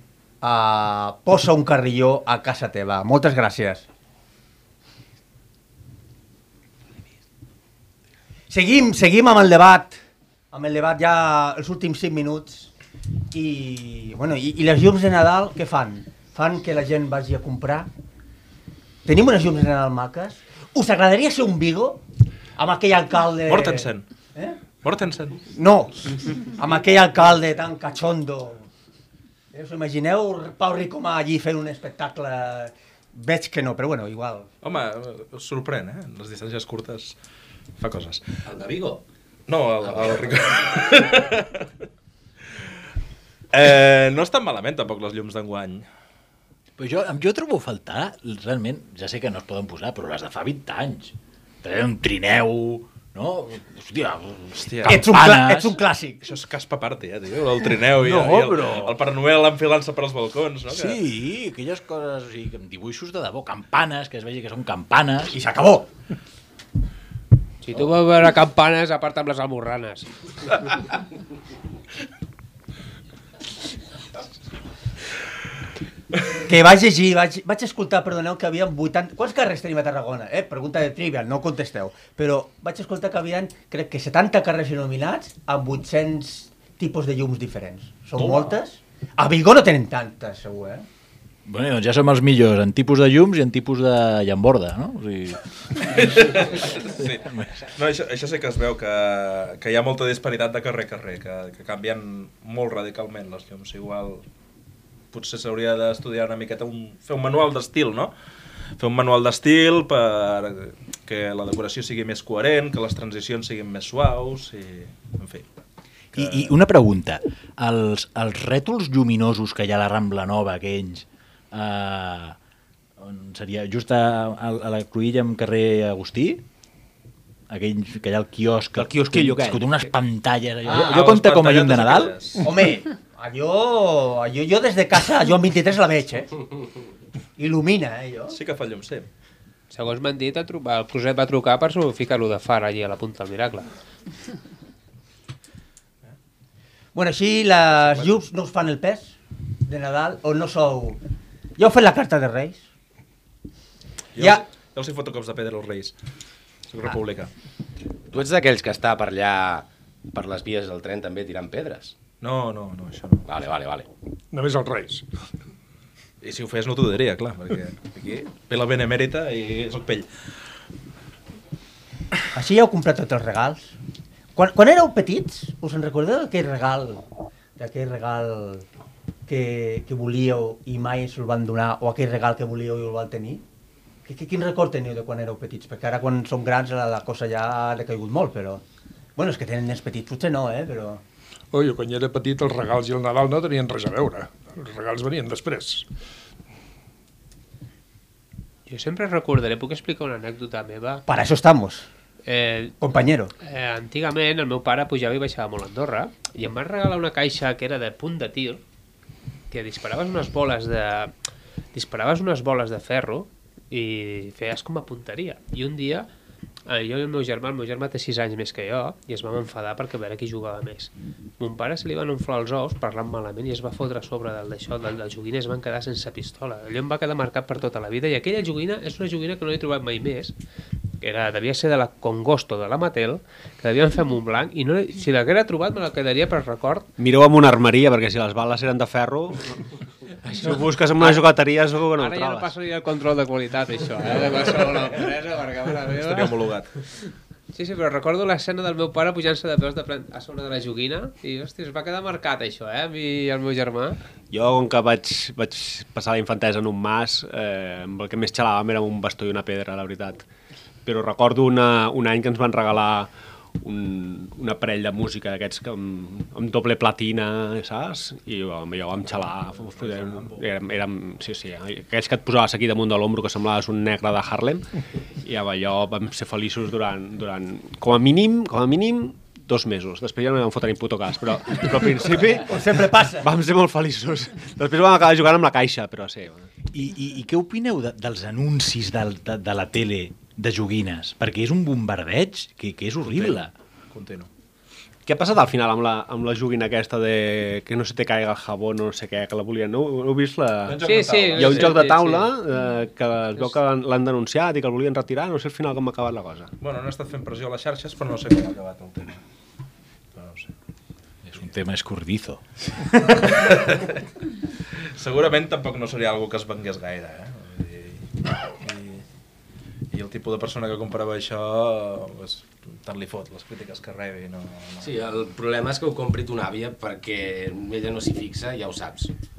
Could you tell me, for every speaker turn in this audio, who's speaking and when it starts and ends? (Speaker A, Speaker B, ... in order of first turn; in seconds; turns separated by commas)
Speaker A: 0.4-3.9, Speaker A: 8.5-10.0, Speaker A: 10.5-12.7, Speaker A: 13.3-17.9, Speaker A: 19.1-22.0, Speaker A: 22.6-24.6, Speaker B: 23.5-24.1, Speaker B: 24.8-25.4, Speaker A: 25.5-28.6, Speaker A: 29.5-34.5, Speaker B: 34.6-37.1, Speaker B: 37.8-41.7, Speaker B: 43.5-45.9, Speaker C: 46.8-55.8, Speaker B: 54.6-55.0, Speaker A: 54.9-56.2, Speaker B: 56.2-61.0, Speaker C: 58.0-59.0, Speaker C: 60.7-65.3, Speaker A: 65.3-65.9, Speaker D: 67.6-70.1, Speaker A: 76.5-90.8, Speaker C: 91.5-97.6, Speaker B: 95.9-104.2, Speaker B: 105.1-108.1, Speaker B: 108.8-116.5, Speaker C: 116.1-122.4, Speaker C: 123.0-126.4, Speaker C: 127.5-132.4, Speaker E: 128.8-129.6, Speaker A: 130.6-130.9, Speaker B: 130.7-132.4, Speaker A: 132.4-136.3, Speaker A: 137.4-138.3, Speaker B: 138.3-139.1, Speaker D: 139.7-143.7, Speaker A: 146.9-151.0, Speaker B: 147.8-148.2, Speaker A: 151.6-152.6, Speaker B: 154.1-155.9, Speaker B: 156.7-157.3, Speaker F: 158.1-161.9, Speaker B: 162.2-163.2, Speaker F: 163.2-163.8, Speaker G: 164.3-165.1, Speaker B: 166.2-170.1, Speaker A: 172.3-173.8, Speaker A: 174.3-177.0, Speaker A: 177.6-178.6, Speaker A: 179.3-183.4, Speaker A: 184.1-188.6, Speaker A: 189.2-191.0, Speaker G: 191.5-195.9, Speaker D: 198.7-201.0, Speaker A: 201.1-201.9, Speaker D: 202.2-202.8, Speaker A: 202.8-203.3, Speaker D: 203.4-208.6, Speaker D: 209.5-211.1, Speaker D: 211.7-216.1, Speaker D: 216.7-230.3, Speaker D: 231.0-236.9, Speaker E: 237.0-239.6, Speaker E: 240.3-242.5, Speaker D: 240.3-241.2, Speaker D: 242.0-246.3, Speaker B: 245.9-246.7, Speaker D: 247.5-254.0, Speaker E: 254.3-260.2, Speaker E: 260.8-263.1, Speaker E: 263.6-274.7, Speaker B: 269.1-270.5, Speaker E: 275.2-286.5, Speaker A: 282.4-283.3, Speaker C: 286.7-293.5, Speaker B: 293.1-294.3, Speaker E: 295.1-306.5, Speaker B: 300.7-301.8, Speaker D: 300.8-302.4, Speaker B: 306.6-309.2, Speaker B: 310.1-310.5, Speaker C: 311.2-313.3, Speaker B: 313.4-314.0, Speaker B: 315.0-319.0, Speaker B: 319.9-324.9, Speaker F: 324.8-329.1